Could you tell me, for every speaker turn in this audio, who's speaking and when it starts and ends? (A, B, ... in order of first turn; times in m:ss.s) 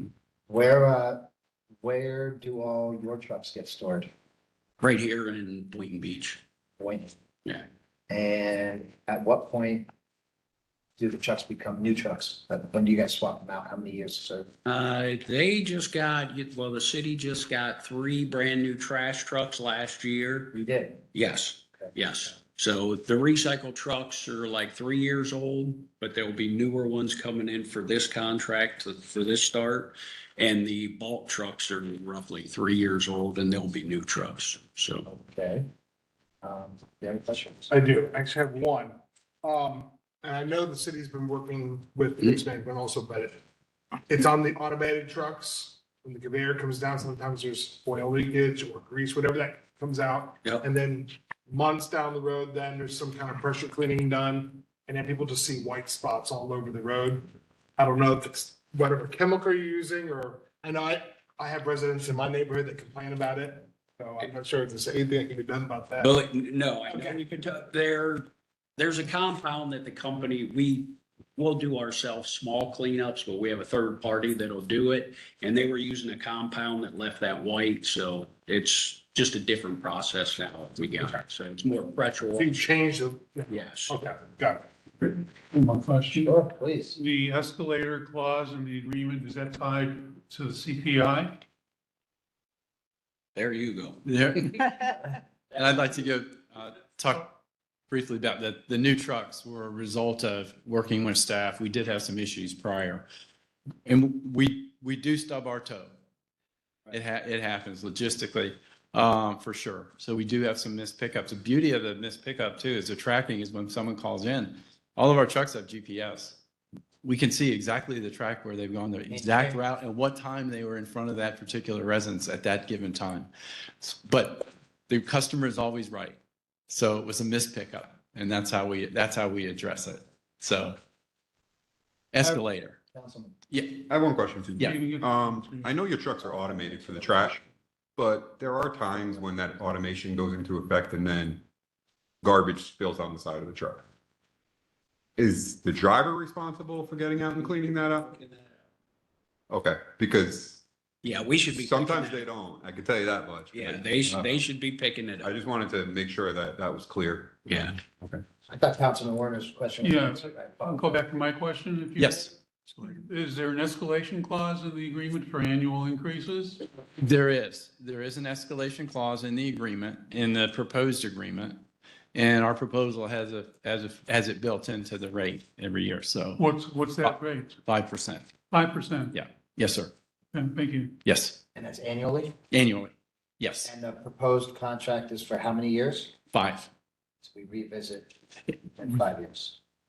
0:00.5-0:01.3 A
0:01.8-0:04.1 A
0:04.8-0:06.4 B
0:06.8-0:07.1 A
0:08.1-0:09.9 A
0:11.0-0:14.5 A
0:14.7-0:20.5 B
0:20.5-0:21.1 A
0:21.1-0:35.0 B
0:35.1-0:35.7 A
0:36.4-0:37.7 A
0:37.7-0:43.4 C
0:44.1-1:06.1 C
1:06.0-1:22.7 B
1:06.9-1:07.2 C
1:22.4-1:24.6 C
1:23.5-1:24.0 B
1:25.0-1:26.4 D
1:26.1-1:27.0 A
1:27.0-1:31.4 D
1:33.4-1:34.0 B
1:34.0-1:34.9 E
1:35.5-1:37.3 E
1:37.9-1:43.0 E
1:43.9-1:46.0 E
1:46.9-1:56.4 E
1:57.0-2:03.3 E
1:59.1-1:59.6 A
2:03.8-2:10.8 E
2:12.1-2:12.8 E
2:12.9-2:13.3 A
2:13.5-2:13.8 E
2:13.8-2:17.4 F
2:14.6-2:15.8 D
2:16.2-2:17.4 A
2:18.0-2:21.4 F
2:22.2-2:23.8 F
2:25.2-2:28.2 F
2:29.5-2:30.6 F
2:31.0-2:32.3 B
2:31.5-2:34.5 F
2:33.5-2:35.3 B
2:35.2-2:38.2 F
2:37.5-2:37.8 B
2:38.5-2:41.0 A
2:39.8-2:46.6 D
2:42.0-2:42.3 E
2:47.0-2:51.6 E
2:52.1-2:56.4 E
2:56.4-2:57.6 D
2:57.0-2:58.3 E
2:58.5-2:59.2 D
2:59.1-2:59.9 E
3:00.3-3:01.0 D
3:01.0-3:01.4 E
3:01.6-3:02.3 A
3:02.5-3:03.7 E
3:03.6-3:06.1 A
3:06.3-3:06.7 E
3:07.2-3:08.2 A
3:08.7-3:09.6 A